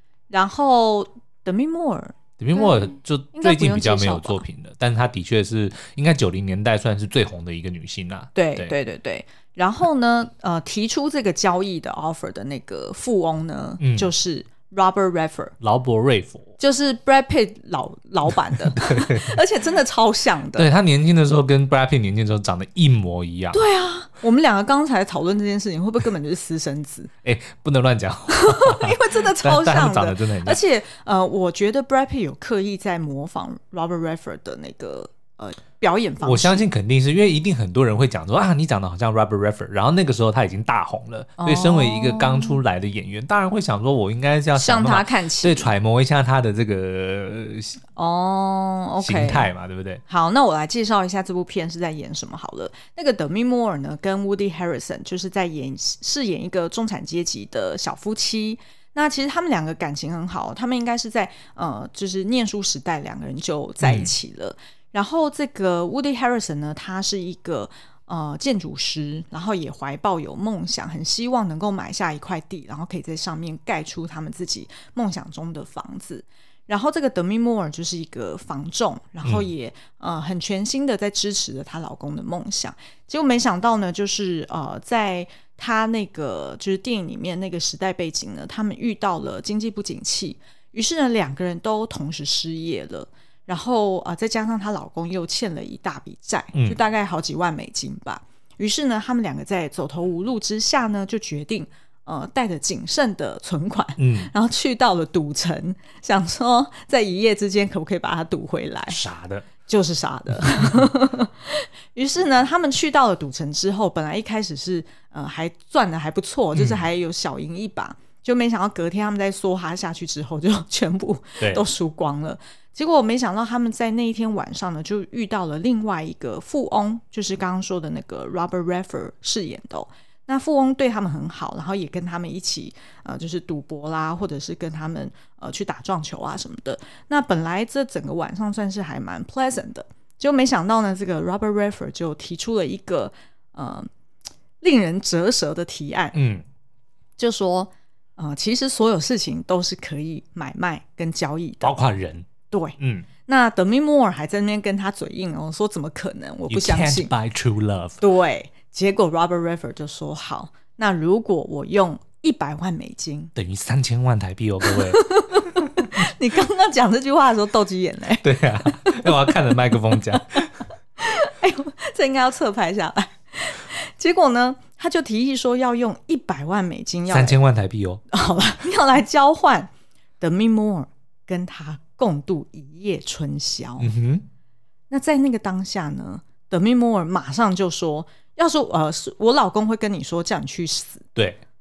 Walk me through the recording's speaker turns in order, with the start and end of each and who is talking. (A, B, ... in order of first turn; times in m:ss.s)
0:00.3-0:04.4 A
0:02.4-0:08.7 B
0:08.4-0:15.6 A
0:13.8-0:14.1 B
0:15.6-0:16.5 B
0:16.6-0:20.7 A
0:18.8-0:19.4 B
0:20.6-0:23.6 B
0:23.5-0:27.1 A
0:27.2-0:30.6 B
0:28.3-0:36.7 A
0:36.2-0:47.8 B
0:41.4-0:42.6 A
0:44.5-0:45.7 A
0:48.0-0:49.5 A
0:49.0-0:50.0 B
0:50.1-1:49.0 A
1:03.8-1:04.1 B
1:19.2-1:19.5 B
1:44.0-1:44.3 B
1:48.9-1:49.5 B
1:49.7-2:23.9 A
1:50.4-1:50.8 B
1:56.6-1:56.9 B
2:01.4-2:01.6 B
2:24.6-2:26.2 A
2:26.1-2:26.4 B
2:27.2-2:31.8 A
2:31.6-2:32.3 B
2:32.5-2:37.1 A
2:32.8-2:33.1 B
2:36.5-2:38.0 B
2:38.0-2:43.3 A
2:43.4-2:45.0 B
2:44.6-2:50.4 A
2:48.2-2:50.6 B
2:51.0-2:57.4 A
2:57.1-2:58.0 B
2:58.1-3:03.9 A
3:03.8-3:04.2 B
3:04.9-3:11.1 A